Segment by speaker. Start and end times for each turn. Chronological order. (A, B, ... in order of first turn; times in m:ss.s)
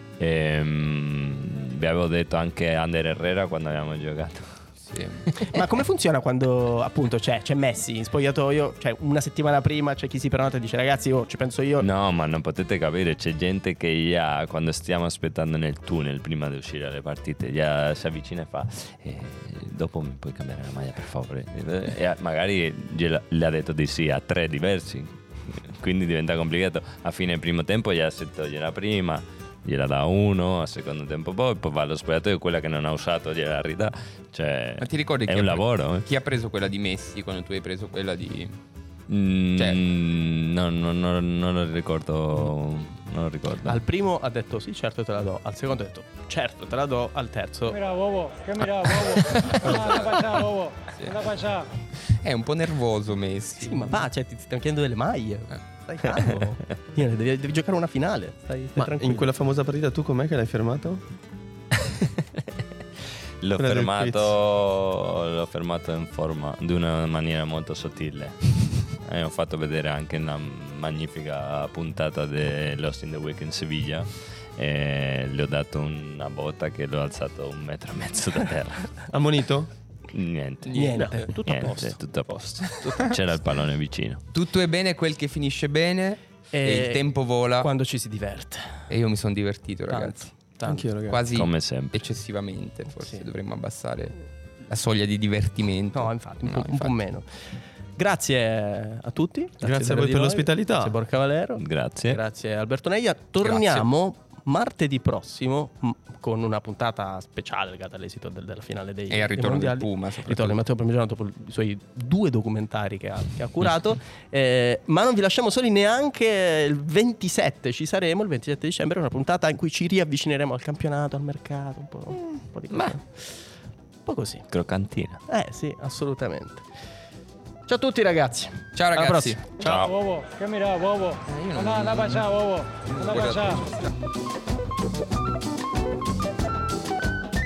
0:00.2-0:04.6 A
0:04.8-0:05.2 B
0:05.4-0:11.9 C
0:11.8-0:36.1 A
0:34.8-0:38.6 B
0:39.1-0:43.8 A
0:43.6-0:47.8 C
0:47.7-0:51.7 D
0:52.1-0:54.0 B
0:53.6-0:59.3 C
0:58.8-1:01.0 E
1:03.4-1:19.1 A
1:03.6-1:04.3 E
1:19.1-1:19.7 E
1:20.1-1:24.2 A
1:20.7-1:21.3 B
1:20.7-1:22.0 C
1:24.3-1:27.7 B
1:26.5-1:27.0 C
1:27.6-1:28.9 C
1:28.9-1:30.5 B
1:29.9-1:30.9 C
1:30.7-1:31.2 E
1:31.1-1:34.2 B
1:31.3-1:32.0 A
1:34.7-1:36.9 B
1:35.9-1:37.3 C
1:38.0-2:03.4 C
1:39.6-1:41.0 E
1:41.6-1:42.2 A
1:43.4-1:43.9 B
1:49.1-1:50.6 B
2:04.1-2:04.5 C
2:04.5-2:05.2 A
2:05.3-2:06.6 C
2:07.7-2:09.6 C
2:08.8-2:09.4 B
2:09.6-2:09.9 A
2:09.6-2:13.6 D
2:11.2-2:12.3 B
2:12.9-2:13.9 B